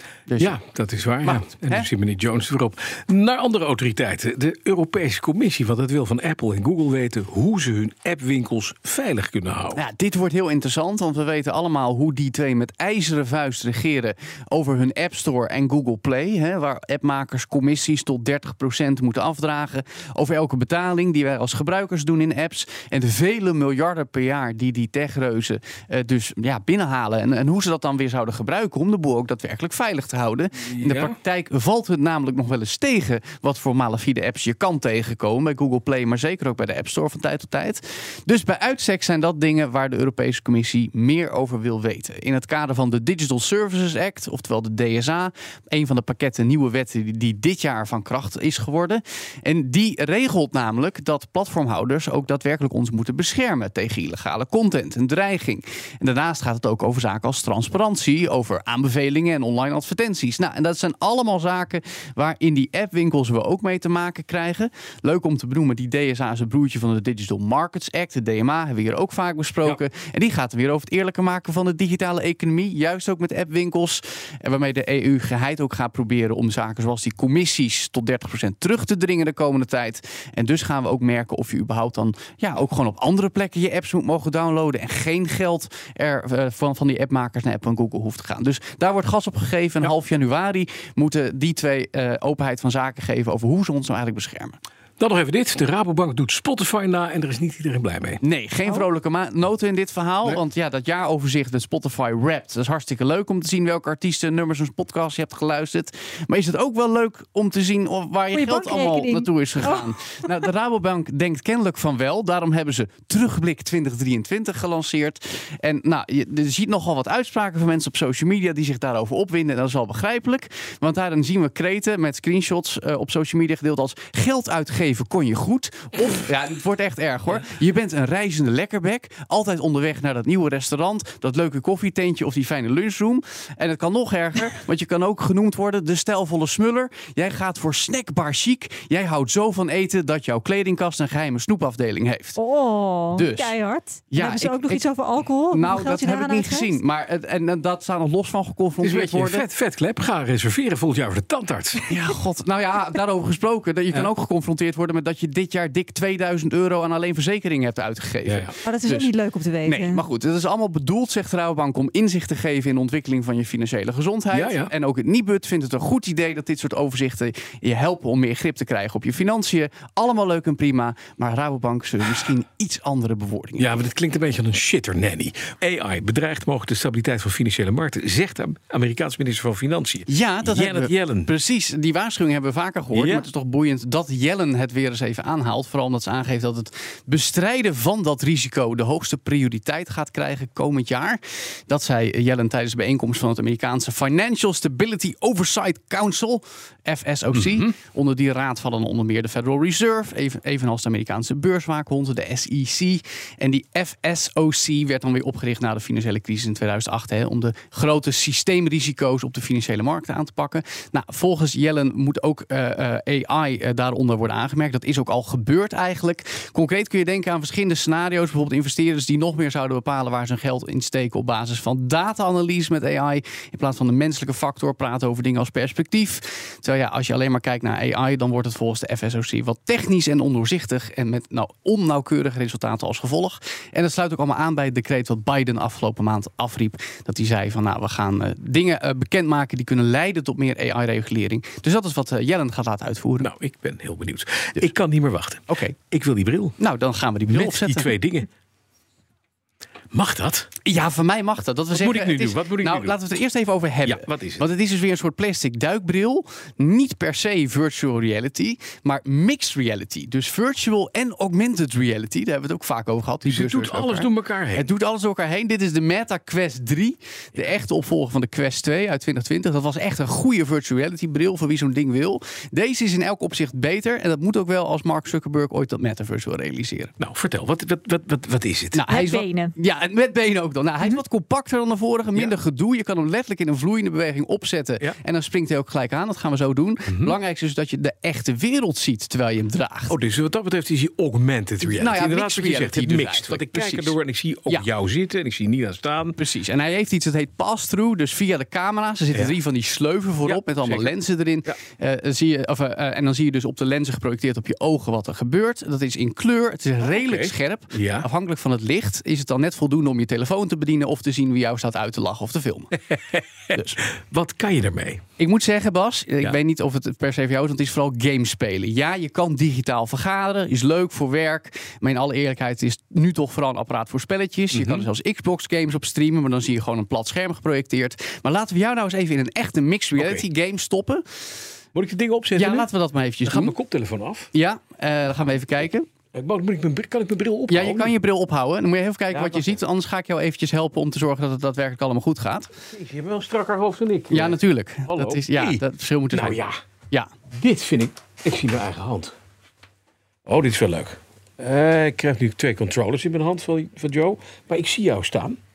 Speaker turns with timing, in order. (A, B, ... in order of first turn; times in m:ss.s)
0:00.3-0:00.6 A
0:00.4-0:09.8 B
0:01.2-0:01.9 A
0:09.7-1:34.6 A
0:30.7-0:31.2 B
1:35.0-1:38.2 B
1:38.2-2:22.4 A
1:48.3-1:49.8 C
2:22.4-2:26.8 C
2:23.1-2:23.5 A
2:24.1-2:24.8 A
2:25.5-2:29.4 A
2:28.8-2:31.8 B
2:31.9-2:39.1 A
2:38.3-2:38.5 B
2:38.6-2:40.0 C
2:39.6-2:53.8 A
2:44.3-2:44.7 B
2:53.6-3:01.3 B
3:00.1-4:03.3 A
3:02.9-3:03.3 B
3:17.3-3:17.7 B
4:03.2-4:06.6 B
4:05.5-4:05.7 A
4:06.6-4:07.9 A
4:07.3-4:08.3 B
4:09.9-4:10.5 B
4:10.6-4:36.9 A
4:11.7-4:13.0 B
4:13.8-4:14.5 B
4:23.2-4:24.7 B
4:37.0-4:38.8 B
4:38.7-4:50.0 A
4:38.9-4:39.5 C
4:46.9-4:47.1 B
4:49.9-4:56.2 B
4:51.6-4:54.0 A
4:56.2-5:12.7 A
5:00.2-5:00.9 B
5:06.8-5:08.1 B
5:13.5-5:13.8 A
5:14.0-5:15.0 B
5:15.2-5:31.0 A
5:24.5-5:24.9 B
5:30.0-5:30.2 B
5:31.8-5:32.7 B
5:32.4-5:33.6 A
5:33.2-5:34.3 B
5:34.3-5:35.9 A
5:36.1-5:38.0 B
5:37.5-5:42.5 A
5:39.1-5:39.6 B
5:42.7-5:44.4 B
5:44.1-5:46.4 A
5:44.9-5:46.6 B
5:47.4-5:49.1 B
5:50.2-5:55.4 B